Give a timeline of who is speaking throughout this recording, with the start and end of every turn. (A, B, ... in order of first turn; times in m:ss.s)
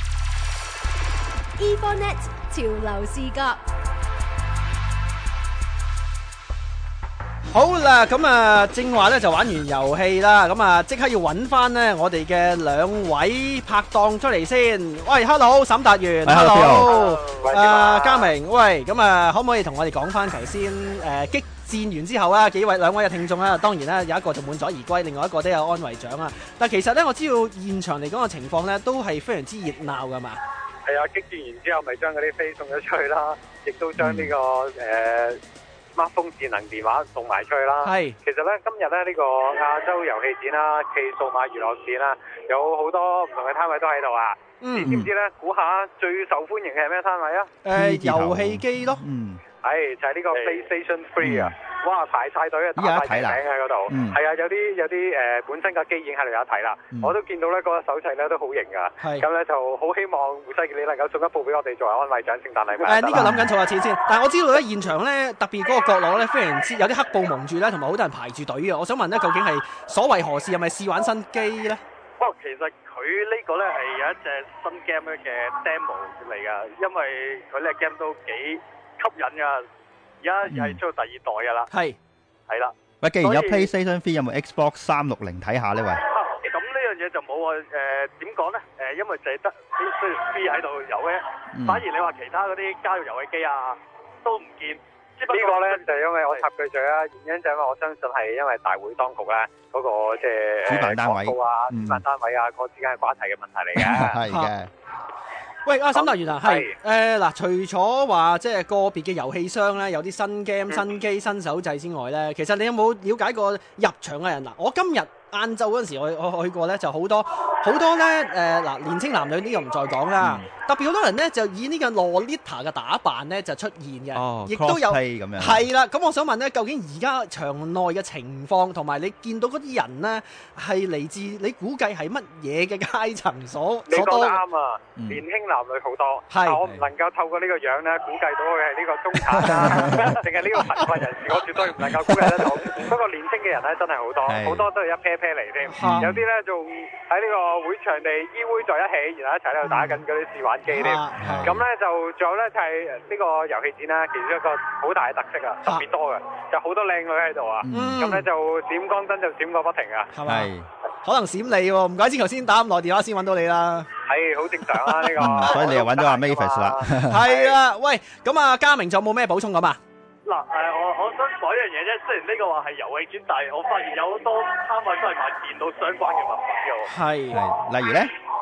0:01.6-0:03.6 A
0:07.5-0:30.4 B
0:16.2-0:17.0 C
0:16.8-0:17.4 D
0:17.4-0:18.3 E
0:30.8-0:35.4 E
0:34.0-0:34.3 C
0:35.9-0:47.5 E
0:37.8-0:38.2 B
0:44.6-0:45.0 B
0:47.6-0:49.0 B
0:47.7-0:49.4 C
0:49.6-1:03.2 E
0:50.3-0:50.6 D
0:51.2-0:51.5 C
0:52.8-0:54.2 C
0:59.0-0:59.3 B
1:02.8-1:11.8 B
1:03.1-1:03.5 C
1:12.2-1:19.6 D
1:20.2-1:21.7 D
1:20.5-1:20.8 C
1:21.7-1:22.0 B
1:22.5-1:23.7 D
1:23.0-1:26.0 C
1:26.1-1:36.4 D
1:31.5-1:31.8 C
1:35.3-1:44.2 E
1:40.6-1:42.0 C
1:43.8-1:44.7 C
1:45.6-2:14.4 B
1:45.9-1:46.7 E
2:00.2-2:00.5 C
2:04.1-2:05.7 C
2:13.9-2:40.1 E
2:15.0-2:15.2 C
2:16.3-2:16.6 B
2:19.4-2:19.6 B
2:19.4-2:20.2 C
2:24.3-2:24.7 C
2:25.7-2:26.1 B
2:25.8-2:26.2 C
2:29.6-2:30.0 B
2:30.7-2:31.6 B
2:31.2-2:31.6 C
2:37.6-2:38.0 C
2:37.7-2:38.3 B
2:40.1-2:40.5 B
2:40.2-2:40.7 C
2:41.0-2:43.9 B
2:44.0-2:47.6 E
2:45.0-2:45.5 B
2:45.2-2:47.2 C
2:47.0-2:49.8 B
2:50.3-2:56.9 D
2:56.9-2:57.4 B
2:57.3-2:58.1 C